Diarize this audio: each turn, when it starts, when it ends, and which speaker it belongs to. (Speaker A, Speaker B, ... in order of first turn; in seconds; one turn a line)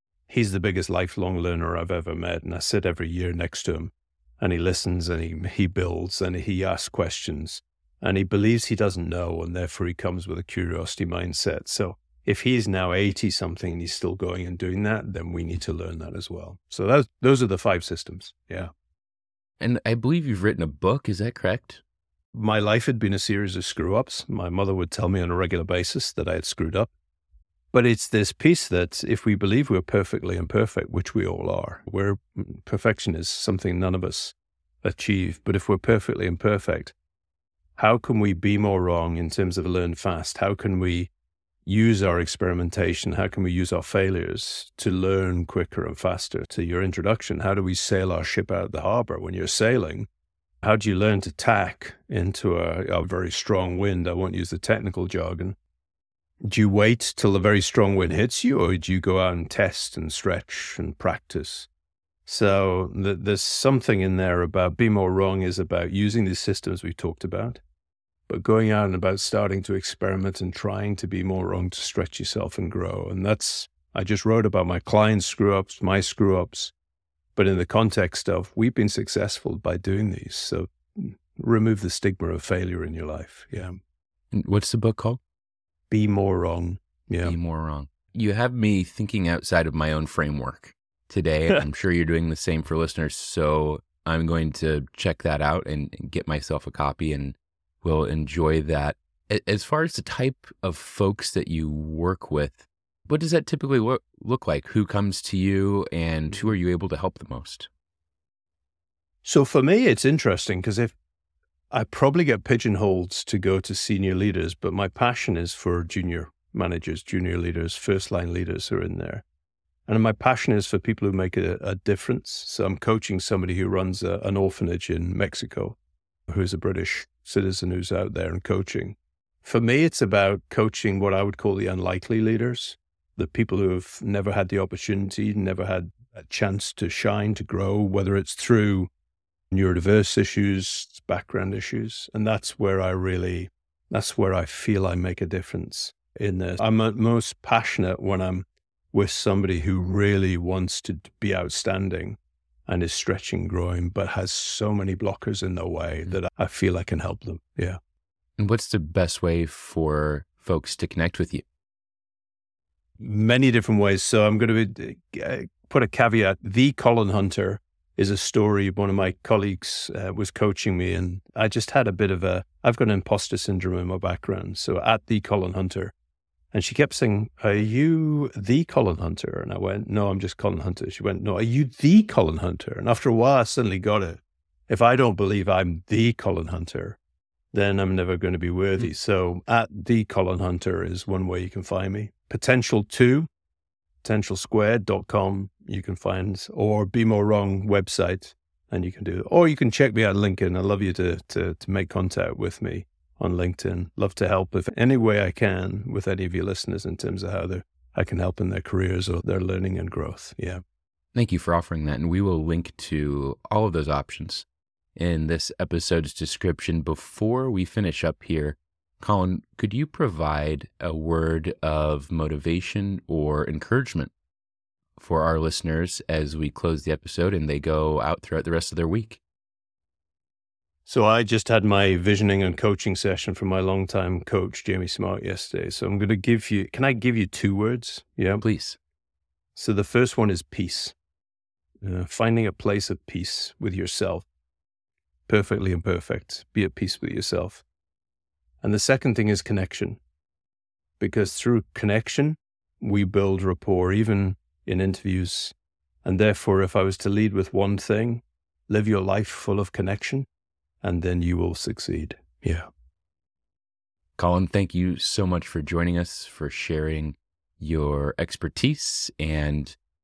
Speaker A: 0.3-18.7
Speaker B: 19.6-21.8
Speaker A: 22.3-26.9
Speaker A: 27.7-36.9
Speaker A: 37.8-41.1
Speaker A: 41.6-50.1
Speaker A: 50.6-55.5
Speaker A: 56.4-61.7
Speaker A: 62.2-67.6
Speaker A: 68.3-76.7
Speaker A: 77.3-83.7
Speaker B: 84.3-85.2
Speaker A: 85.9-87.3
Speaker B: 87.2-107.7
Speaker A: 109.2-110.9
Speaker A: 111.7-119.2
Speaker A: 119.9-125.8
Speaker A: 126.3-138.9
Speaker A: 139.5-157.8
Speaker B: 158.4-161.4
Speaker A: 163.0-175.9
Speaker A: 176.5-187.0
Speaker A: 187.5-193.3
Speaker A: 194.0-210.6
Speaker B: 211.1-214.4
Speaker B: 214.9-224.1
Speaker B: 225.0-229.2
Speaker A: 230.8-238.4
Speaker B: 238.4-238.8
Speaker A: 239.6-240.9
Speaker A: 241.8-244.2
Speaker A: 245.3-247.6
Speaker A: 248.6-250.0
Speaker A: 251.0-260.3
Speaker A: 260.8-262.7
Speaker B: 264.2-269.8